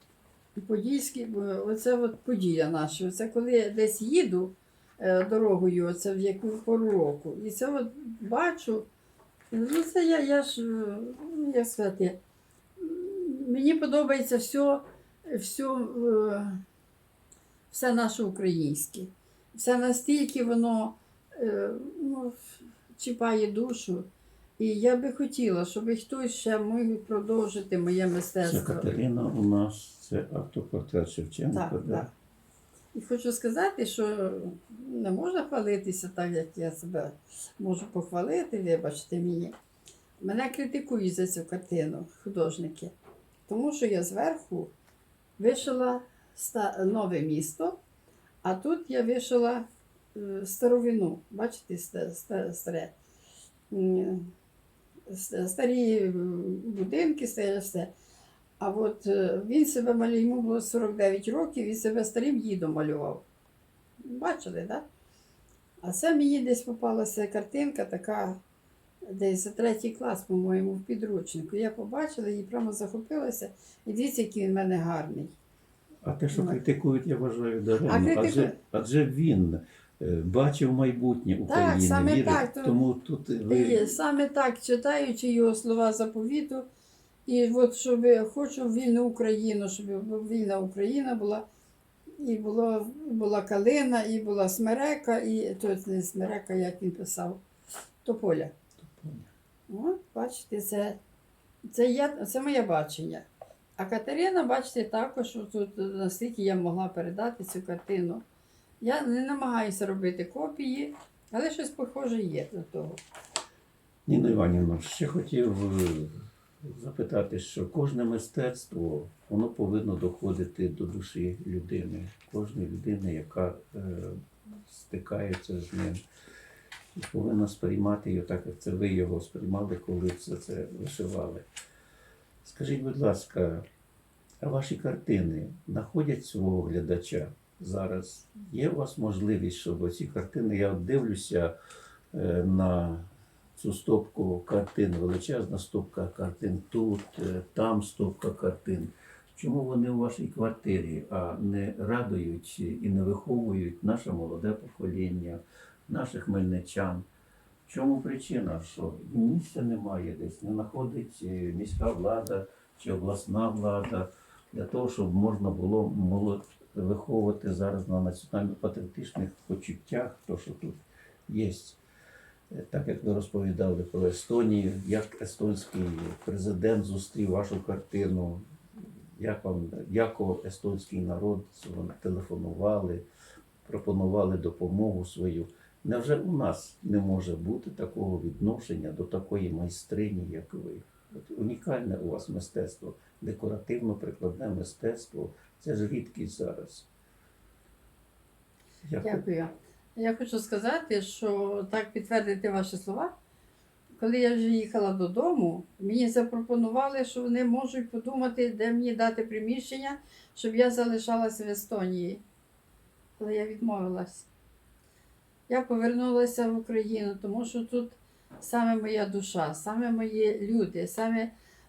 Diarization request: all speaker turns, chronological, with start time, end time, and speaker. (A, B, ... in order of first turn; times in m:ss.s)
0:00.6-0:08.9 A
0:09.5-0:12.2 A
0:12.8-0:16.6 A
0:17.7-0:24.1 A
0:24.6-0:29.0 A
0:28.4-0:32.1 B
0:31.5-0:32.1 A
0:32.9-0:39.6 A
0:40.2-0:42.9 A
0:43.5-0:44.7 A
0:45.4-0:47.8 A
0:48.4-0:52.9 A
0:53.7-0:54.3 A
0:55.1-0:57.9 A
0:58.6-1:03.2 A
1:04.0-1:04.9 A
1:05.8-1:08.4 A
1:09.0-1:15.3 A
1:16.0-1:24.0 B
1:16.3-1:16.6 A
1:17.9-1:18.6 A
1:21.5-1:22.8 A
1:23.5-1:26.7 A
1:27.3-1:31.5 A
1:32.2-1:37.4 A
1:38.0-1:38.5 A
1:38.8-1:39.3 B
1:39.7-1:41.0 A
1:41.7-1:43.3 A
1:43.8-1:48.2 A
1:48.8-1:53.0 A
1:54.1-1:56.2 B
1:56.7-2:06.0 B
2:07.0-2:11.5 B
2:12.4-2:13.7 B
2:14.4-2:21.5 B
2:22.1-2:37.1 B
2:37.7-2:51.8 B
2:52.5-3:03.0 B
3:03.7-3:16.9 B
3:18.8-3:19.2 B
3:19.0-3:23.1 A
3:24.0-3:32.2 A
3:33.2-3:34.3 A
3:35.5-3:41.3 A